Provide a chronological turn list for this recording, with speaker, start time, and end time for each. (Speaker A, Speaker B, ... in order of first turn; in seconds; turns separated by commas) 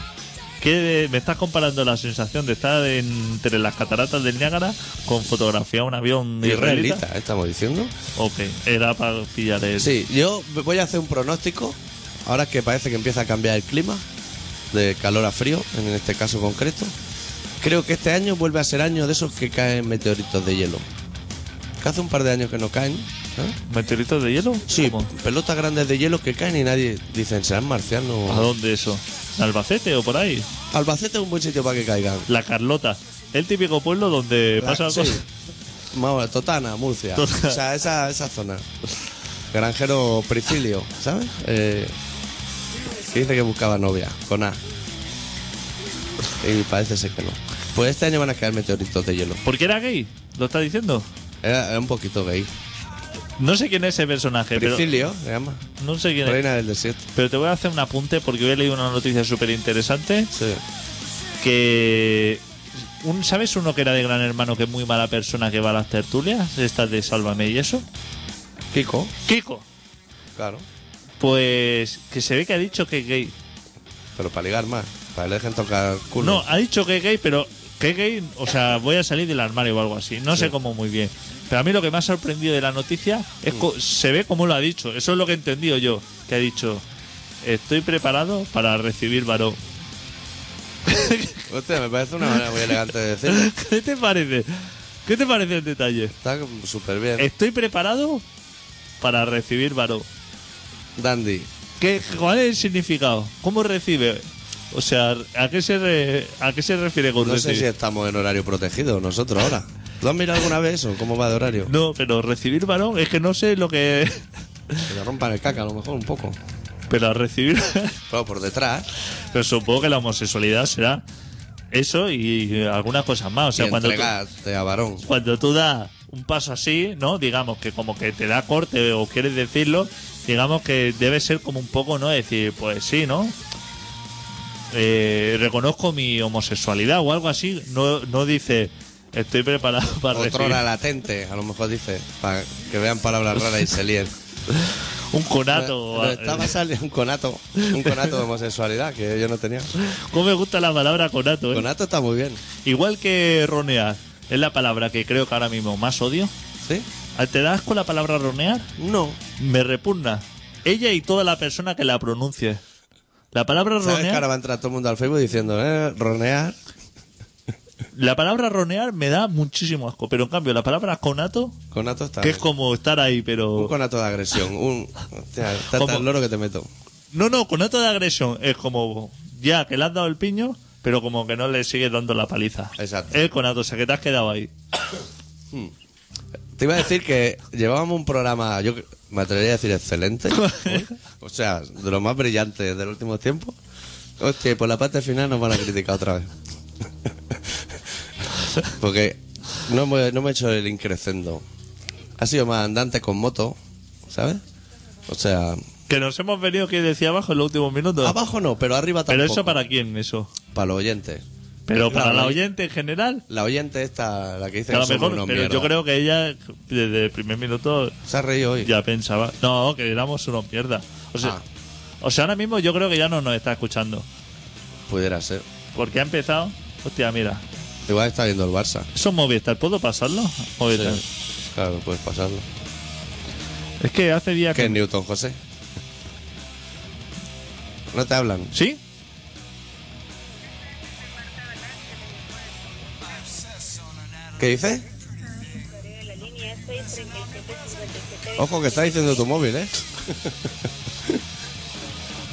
Speaker A: 0.6-7.0, Speaker B: 6.4-7.9, Speaker A: 8.2-9.9, Speaker B: 9.8-14.0, Speaker B: 14.7-16.9, Speaker B: 17.6-20.9, Speaker B: 21.8-23.6, Speaker A: 23.7-25.1, Speaker B: 24.7-28.5, Speaker A: 28.3-30.5, Speaker B: 30.7-32.3, Speaker A: 32.3-35.2, Speaker B: 34.6-35.2, Speaker B: 35.9-38.6, Speaker A: 37.2-37.6, Speaker B: 39.5-41.9, Speaker B: 43.0-44.6, Speaker B: 46.4-49.4, Speaker A: 49.4-51.1, Speaker B: 51.4-52.5, Speaker A: 53.4-54.9, Speaker B: 54.6-55.6, Speaker A: 55.8-56.4, Speaker B: 56.2-57.1, Speaker A: 57.1-60.3, Speaker B: 60.3-60.6, Speaker A: 61.4-67.8, Speaker B: 68.7-69.1, Speaker A: 69.2-69.7, Speaker B: 70.4-70.7, Speaker A: 71.2-73.3, Speaker B: 74.2-76.5, Speaker A: 76.2-86.8, Speaker A: 87.4-89.6, Speaker A: 90.9-91.5, Speaker B: 91.5-93.5, Speaker A: 92.3-92.7, Speaker A: 93.3-96.1, Speaker B: 96.2-97.3, Speaker A: 97.2-98.2, Speaker A: 99.0-100.1, Speaker B: 101.0-101.5, Speaker A: 101.8-107.7, Speaker B: 107.2-111.7, Speaker A: 111.7-114.9, Speaker B: 114.9-116.4, Speaker A: 116.9-118.0, Speaker B: 118.1-118.9, Speaker A: 119.3-121.0, Speaker A: 121.7-124.1, Speaker B: 123.5-125.0, Speaker A: 125.0-133.4, Speaker A: 134.7-140.6, Speaker B: 140.1-144.1, Speaker A: 144.5-146.5, Speaker B: 145.5-149.7, Speaker A: 147.6-148.1, Speaker A: 149.8-151.7, Speaker B: 151.5-152.4, Speaker A: 152.6-156.3, Speaker A: 157.2-158.7, Speaker B: 158.8-159.2, Speaker A: 159.4-162.6, Speaker A: 163.3-164.3, Speaker B: 163.8-166.6, Speaker A: 167.9-171.6, Speaker B: 171.7-172.5, Speaker A: 172.2-173.7, Speaker B: 173.5-176.7, Speaker A: 175.7-176.1, Speaker A: 177.1-184.5, Speaker B: 182.8-183.2, Speaker B: 186.6-193.6, Speaker A: 190.3-190.9, Speaker B: 194.2-196.3, Speaker B: 197.1-197.5, Speaker B: 198.6-201.4, Speaker B: 202.2-204.4, Speaker B: 205.1-205.6, Speaker A: 205.9-208.2, Speaker B: 208.0-209.6, Speaker A: 209.1-210.3, Speaker B: 210.5-211.2, Speaker A: 211.7-213.2, Speaker B: 211.8-212.4, Speaker B: 213.3-215.7, Speaker A: 214.7-218.0, Speaker B: 218.1-218.7, Speaker A: 218.6-221.4, Speaker A: 222.0-224.1, Speaker B: 224.9-225.4, Speaker A: 225.8-227.4, Speaker B: 227.9-228.9, Speaker A: 228.9-231.0, Speaker B: 230.7-232.5, Speaker A: 233.8-234.8, Speaker B: 234.5-235.4, Speaker B: 237.9-238.5, Speaker A: 238.5-238.8, Speaker C: 240.2-243.4, Speaker B: 244.4-244.8, Speaker C: 245.3-249.3, Speaker B: 248.4-250.5